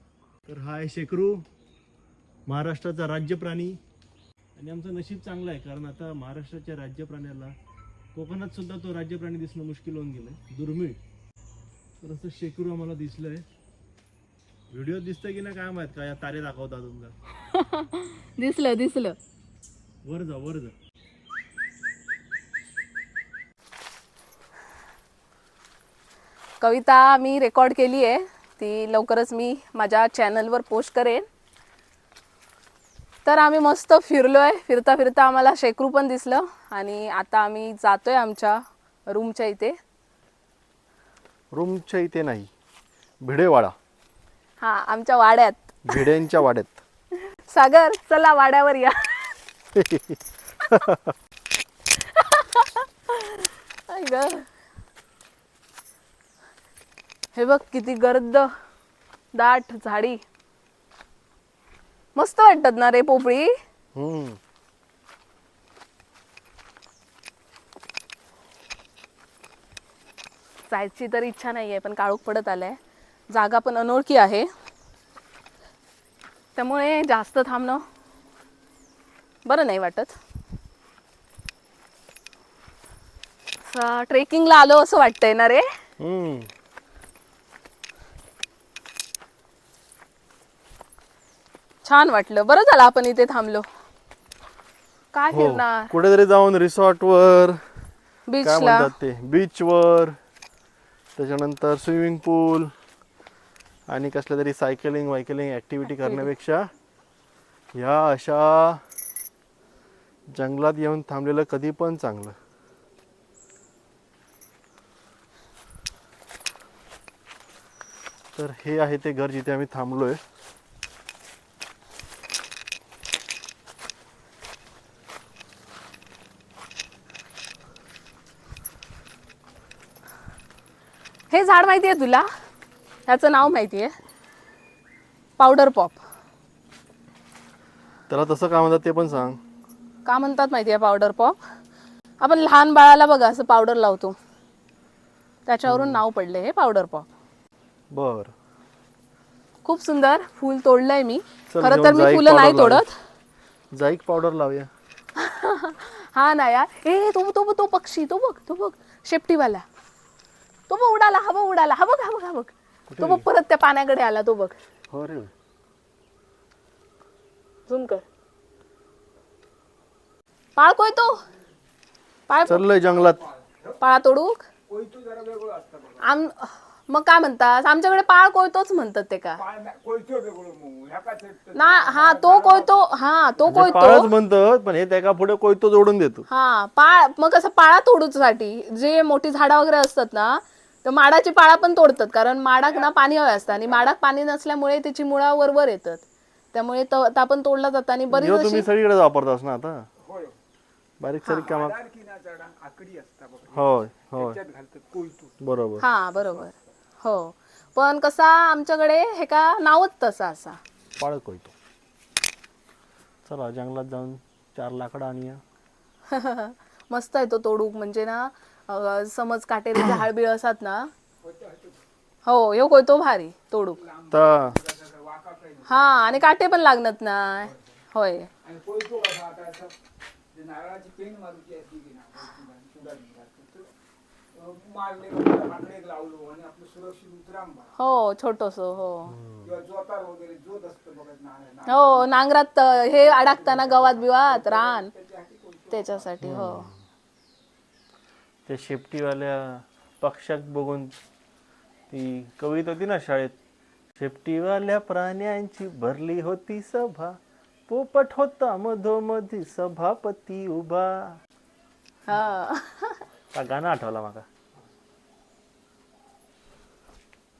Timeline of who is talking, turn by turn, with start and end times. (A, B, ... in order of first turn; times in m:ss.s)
0:00.4-0:01.4 A
0:02.5-0:03.8 A
0:04.6-0:07.5 A
0:08.1-0:11.0 A
0:12.0-0:13.4 A
0:14.7-0:17.1 A
0:17.5-0:19.2 B
0:20.0-0:20.7 A
0:26.6-0:31.2 B
0:33.2-0:39.8 B
0:41.5-0:42.5 A
0:43.2-0:43.7 A
0:44.6-0:46.1 B
0:45.8-0:46.8 A
0:47.2-0:49.4 B
0:49.7-0:51.1 A
0:52.0-0:54.5 B
0:57.3-0:58.5 B
0:59.3-1:00.2 B
1:02.2-1:03.5 B
1:03.9-1:04.4 A
1:10.7-1:12.8 B
1:13.3-1:14.5 B
1:16.6-1:17.8 B
1:19.4-1:20.2 B
1:23.6-1:25.6 B
1:26.0-1:26.5 A
1:31.8-1:33.6 B
1:35.1-1:35.9 B
1:35.3-1:37.6 A
1:38.3-1:38.9 B
1:38.4-1:40.2 A
1:41.2-1:42.7 A
1:43.9-1:46.7 A
1:45.9-1:46.3 B
1:47.7-1:48.8 A
1:50.3-1:52.4 A
1:58.3-2:00.2 A
2:11.3-2:12.3 B
2:13.1-2:13.9 B
2:15.4-2:16.0 B
2:18.1-2:19.4 A
2:20.0-2:21.4 B
2:22.2-2:24.2 B
2:25.5-2:27.1 B
2:25.6-2:26.0 A
2:27.9-2:28.3 A
2:29.6-2:32.9 B
2:31.5-2:32.8 A
2:33.7-2:34.7 A
2:35.2-2:39.6 B
2:40.7-2:44.6 B
2:42.9-2:43.2 A
2:44.9-2:45.3 A
2:47.7-2:48.0 B
2:50.6-2:51.2 B
2:52.3-2:52.6 B
2:52.5-2:53.2 A
2:52.7-2:53.8 C
2:53.8-2:54.4 B
2:54.7-2:56.1 C
2:56.0-2:59.4 B
2:59.4-3:02.9 C
3:01.5-3:04.1 B
3:03.4-3:03.7 C
3:03.5-3:06.2 A
3:06.3-3:18.7 B
3:12.7-3:13.8 C
3:18.1-3:19.9 A
3:20.0-3:20.4 C
3:21.0-3:21.8 A
3:21.3-3:25.3 C
3:23.5-3:24.4 A
3:25.4-3:25.8 A
3:25.8-3:30.6 B
3:31.0-3:31.5 A
3:33.2-3:35.4 A
3:36.1-3:40.9 B
3:41.2-3:41.8 C
3:42.2-3:43.8 B
3:43.8-3:46.4 C
3:44.1-3:44.6 A
3:45.7-3:48.3 B
3:48.4-3:49.7 C
3:50.3-3:53.7 C
3:54.3-3:57.7 C
3:57.8-3:59.2 B
3:59.1-3:59.5 A
3:59.4-4:02.2 C
4:01.7-4:04.9 B
4:02.8-4:06.1 C
4:05.7-4:06.7 B
4:06.2-4:06.7 A
4:08.4-4:10.9 A
4:11.9-4:13.3 A
4:14.0-4:21.2 A
4:22.1-4:23.0 B
4:23.3-4:24.2 A